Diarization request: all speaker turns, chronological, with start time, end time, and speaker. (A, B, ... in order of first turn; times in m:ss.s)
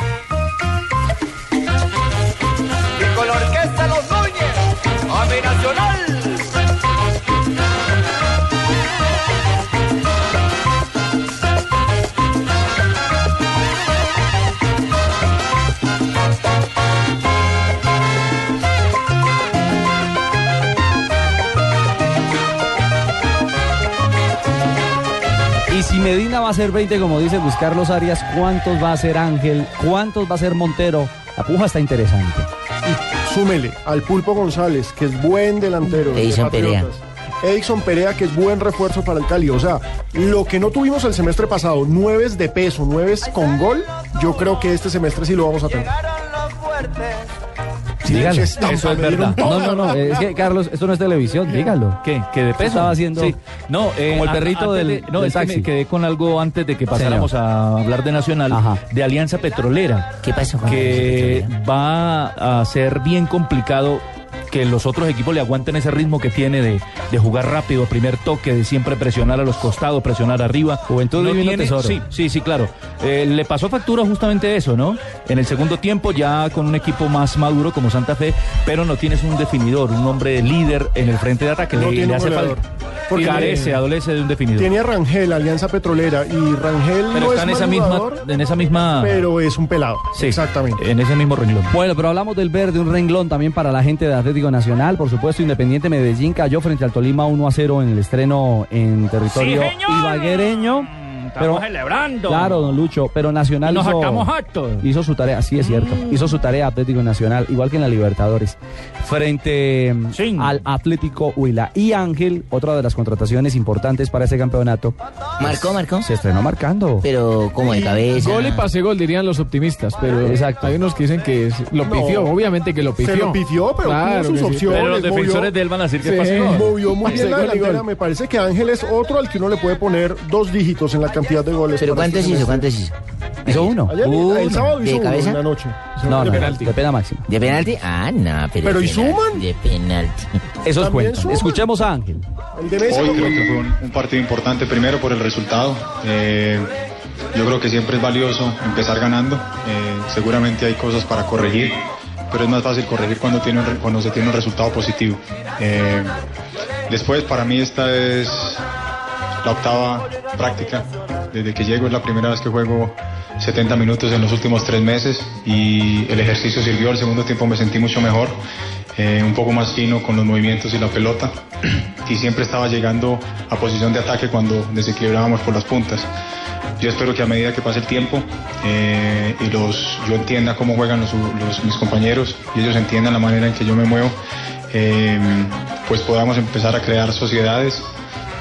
0:03.1-0:04.2 A
0:05.3-0:05.9 A
0:25.7-0:32.5 B
0:32.9-0:45.9 C
0:36.0-0:36.9 D
0:48.0-0:48.6 B
0:48.1-0:49.8 C
0:48.1-0:49.4 E
0:49.3-0:52.0 B
0:52.0-1:22.6 E
0:52.6-0:53.3 B
0:54.1-0:55.7 B
0:56.9-0:57.3 B
0:58.5-0:58.8 B
1:00.2-1:01.5 D
1:10.9-1:12.0 B
1:21.7-1:23.7 C
1:23.1-1:24.7 E
1:24.6-1:28.2 C
1:27.1-1:29.3 E
1:29.0-1:30.8 C
1:30.1-1:31.7 E
1:31.7-1:41.7 B
1:39.4-1:39.7 A
1:41.6-1:42.0 A
1:41.8-1:42.1 E
1:42.2-1:57.1 B
1:43.7-1:44.8 A
1:55.4-1:56.1 D
1:57.0-1:58.7 D
1:57.7-2:04.8 F
2:00.2-2:00.7 B
2:01.8-2:02.3 C
2:03.0-2:05.5 C
2:04.7-2:07.2 E
2:06.0-2:07.8 F
2:06.6-2:12.7 C
2:11.8-2:12.9 D
2:13.4-2:15.4 D
2:13.5-2:14.0 B
2:13.9-2:16.4 C
2:15.9-2:16.7 F
2:16.1-2:17.3 B
2:17.3-2:20.3 D
2:18.6-2:19.4 C
2:20.6-2:22.2 B
2:20.7-2:21.6 C
2:22.5-2:23.5 C
2:22.8-2:26.7 G
2:27.3-2:36.1 G
2:36.9-2:38.6 G
2:39.4-2:48.4 G
2:48.9-2:51.3 G
2:52.0-2:56.1 G
2:56.8-3:04.1 G
3:04.7-3:07.9 G